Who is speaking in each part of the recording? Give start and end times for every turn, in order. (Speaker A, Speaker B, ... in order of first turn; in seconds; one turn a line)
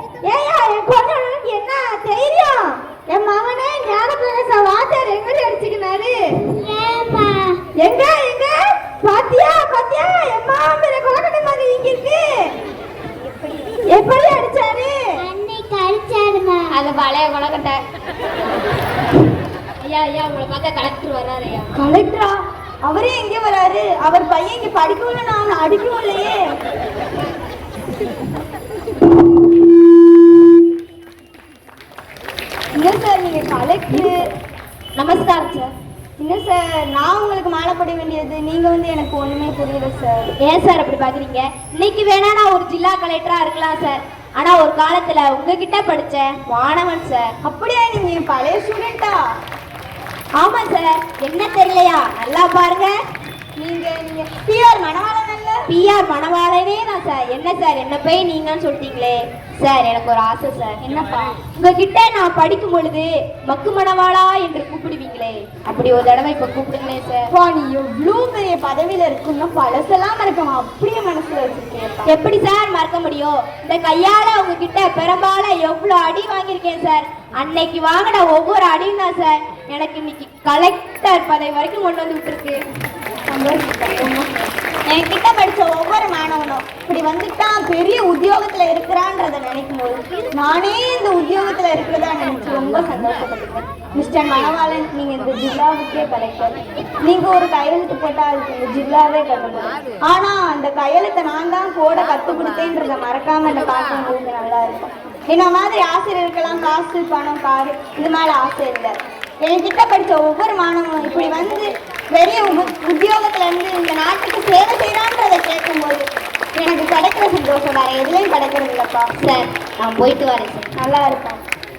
Speaker A: 0.2-6.1
Speaker B: 6.4-7.5
Speaker A: 7.8-12.2
Speaker A: 13.9-15.0
Speaker B: 15.2-16.7
Speaker C: 16.7-17.8
Speaker C: 19.8-21.7
Speaker A: 21.7-26.4
Speaker A: 32.8-34.2
Speaker C: 35.0-35.7
Speaker A: 36.2-40.3
Speaker C: 40.4-47.3
Speaker A: 47.4-49.2
Speaker C: 50.4-53.0
Speaker A: 53.6-55.7
Speaker C: 55.7-60.8
Speaker A: 60.8-61.4
Speaker C: 61.5-67.3
Speaker A: 67.3-72.1
Speaker C: 72.1-82.6
Speaker A: 83.3-119.1
Speaker C: 119.2-120.7
Speaker A: 120.8-121.4